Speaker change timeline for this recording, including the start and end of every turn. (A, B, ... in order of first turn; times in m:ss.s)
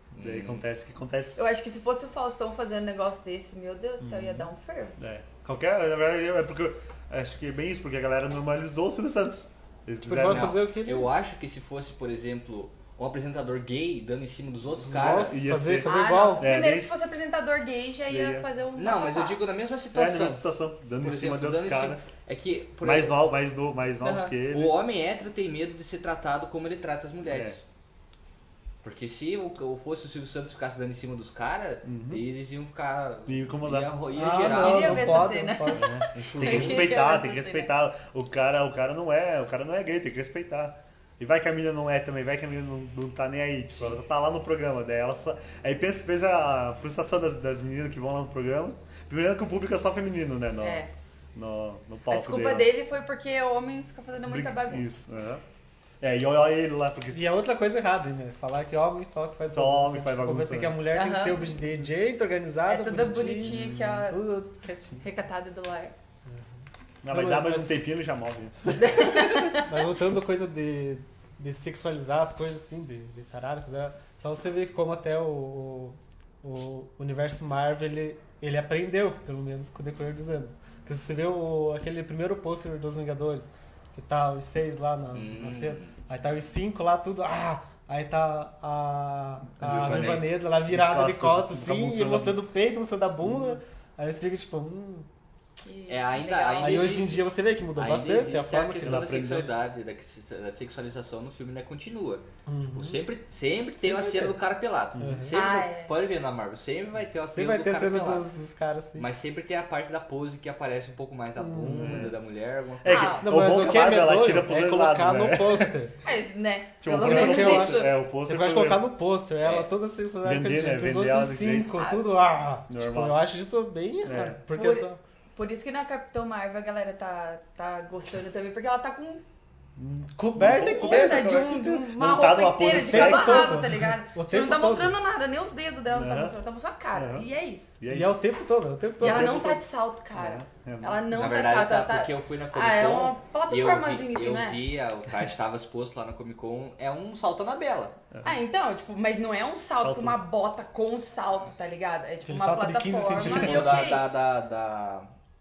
0:00.1-0:00.6 A
0:00.2-0:01.5 B
0:01.4-0:05.0 C
0:04.0-0:10.6 B
0:10.0-0:11.1 D
0:10.2-0:15.4 A
0:14.8-0:16.9 B
0:14.9-0:16.5 D
0:15.8-0:19.4 C
0:18.1-0:18.5 B
0:18.8-0:20.4 A
0:19.9-0:22.0 B
0:21.0-0:23.3 A
0:22.8-0:24.8 B
0:24.0-0:24.3 C
0:24.5-0:27.6 A
0:27.3-0:27.6 B
0:28.8-0:35.3 A
0:31.8-0:32.2 B
0:33.3-0:34.0 B
0:34.1-0:35.9 D
0:34.3-0:37.7 C
0:35.8-0:52.7 B
0:36.2-0:36.9 A
0:50.6-0:50.9 C
0:52.1-0:54.9 C
0:54.3-0:55.4 B
0:56.0-0:57.3 B
0:57.1-1:05.1 D
0:59.5-1:00.8 B
1:00.9-1:01.6 C
1:02.7-1:04.2 C
1:03.4-1:04.1 B
1:05.0-1:06.0 C
1:07.0-1:09.1 B
1:07.1-1:07.8 D
1:08.7-1:09.8 C
1:09.5-1:35.1 D
1:25.1-1:26.0 A
1:29.6-1:32.4 B
1:29.6-1:30.3 A
1:33.3-1:33.5 B
1:35.6-1:37.0 C
1:35.9-1:48.3 A
1:36.6-1:39.2 D
1:38.8-1:39.5 B
1:42.5-1:43.0 D
1:43.8-1:44.4 D
1:45.0-1:45.4 B
1:45.0-1:45.3 D
1:45.3-1:46.0 C
1:47.3-1:49.1 D
1:49.0-1:53.2 A
1:51.4-1:52.1 D
1:51.6-1:52.2 B
1:52.8-1:55.8 B
1:52.9-1:53.3 C
1:53.2-1:56.0 D
1:56.0-1:58.0 C
1:56.8-1:58.9 B
1:56.9-2:05.0 D
1:59.4-1:59.7 A
2:00.2-2:01.8 B
2:01.8-2:02.1 C
2:02.7-2:03.2 B
2:04.0-2:04.4 B
2:04.5-2:09.2 C
2:09.8-2:13.9 B
2:10.2-2:11.7 D
2:10.5-2:17.8 C
2:12.6-2:15.0 D
2:15.9-2:16.4 B
2:16.9-2:17.3 B
2:17.8-2:18.2 B
2:17.9-2:19.6 D
2:19.0-2:19.6 B
2:19.0-2:24.6 C
2:20.2-2:21.1 B
2:21.1-2:28.0 A
2:28.1-2:28.4 B
2:28.2-2:34.1 C
2:29.8-2:30.2 B
2:32.2-2:33.9 D
2:33.2-2:35.1 A